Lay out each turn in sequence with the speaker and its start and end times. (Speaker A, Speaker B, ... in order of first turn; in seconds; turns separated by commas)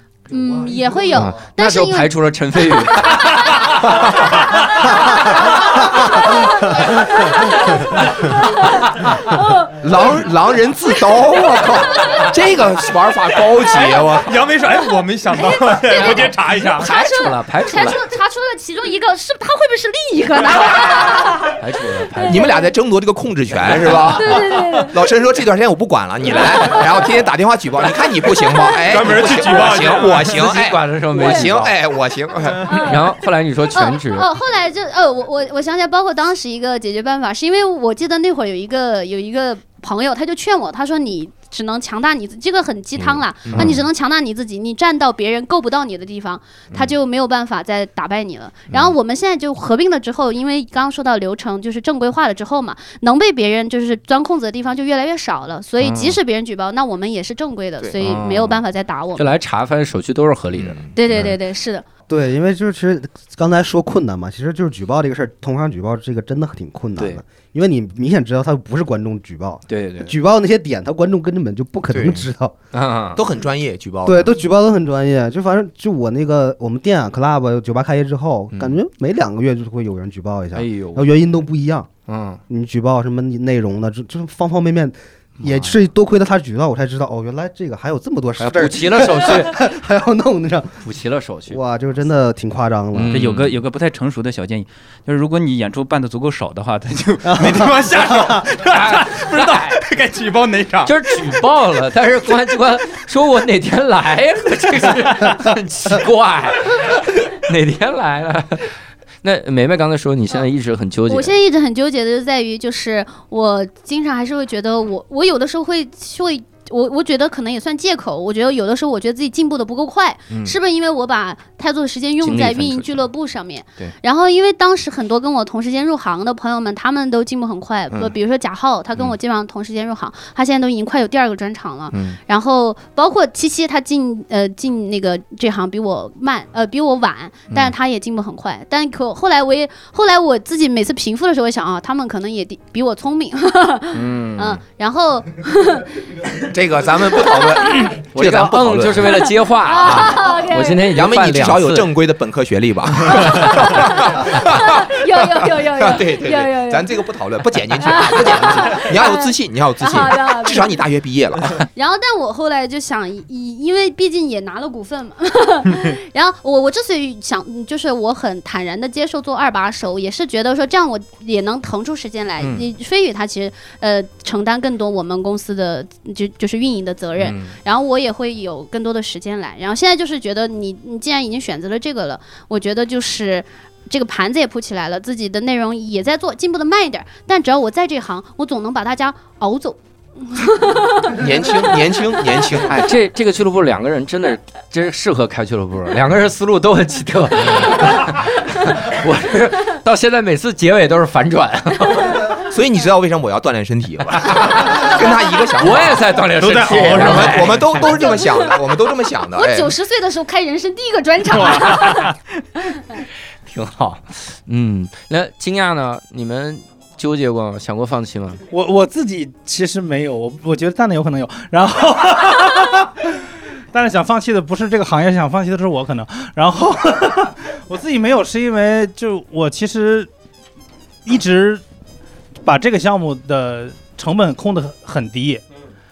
Speaker A: 0.3-10.1, Speaker B: 1.1-4.0, Speaker C: 9.8-14.4, Speaker A: 11.1-12.3, Speaker D: 14.1-16.9, Speaker A: 14.7-21.6, Speaker B: 16.0-18.0, Speaker B: 21.6-22.4, Speaker A: 22.2-22.7, Speaker C: 22.2-32.8, Speaker A: 23.8-25.0, Speaker A: 26.4-26.9, Speaker D: 28.9-30.4, Speaker B: 30.3-31.8, Speaker A: 32.7-33.1, Speaker B: 32.7-34.3, Speaker A: 33.7-59.3, Speaker B: 43.0-43.9, Speaker B: 55.8-56.2, Speaker B: 58.0-58.6, Speaker B: 59.2-61.3, Speaker C: 60.5-61.2, Speaker A: 61.0-61.8, Speaker E: 62.1-72.5, Speaker B: 67.0-67.2, Speaker B: 69.7-70.1, Speaker C: 71.9-72.3, Speaker B: 72.7-73.2, Speaker C: 73.2-74.3, Speaker E: 74.0-81.9, Speaker B: 78.5-78.8, Speaker B: 80.5-81.1, Speaker B: 82.1-82.4, Speaker E: 82.5-90.8, Speaker B: 85.4-85.8, Speaker B: 88.4-89.7, Speaker B: 90.8-91.6, Speaker E: 91.5-93.2, Speaker B: 92.9-93.6, Speaker D: 93.1-101.0, Speaker E: 97.3-98.3, Speaker B: 98.7-99.8, Speaker B: 100.8-111.4, Speaker D: 104.9-106.0, Speaker A: 111.1-146.0, Speaker B: 120.3-120.5, Speaker B: 122.2-123.0, Speaker B: 131.9-132.2, Speaker B: 143.9-144.6, Speaker C: 146.4-149.3, Speaker A: 147.2-147.8, Speaker B: 148.0-151.9, Speaker A: 149.6-150.9, Speaker C: 150.9-161.7, Speaker A: 153.2-157.0, Speaker A: 157.8-160.8, Speaker A: 161.8-191.9, Speaker B: 172.4-172.7, Speaker B: 177.2-177.6, Speaker C: 191.1-192.7, Speaker B: 192.6-202.3, Speaker C: 202.4-206.2, Speaker B: 204.2-205.0, Speaker B: 205.6-207.8, Speaker D: 206.3-207.8, Speaker C: 206.8-209.7, Speaker A: 207.9-208.8, Speaker A: 209.3-213.0, Speaker D: 211.4-212.2, Speaker B: 213.5-218.4, Speaker F: 218.5-223.1, Speaker F: 223.7-230.1, Speaker F: 231.1-231.6, Speaker F: 232.4-235.4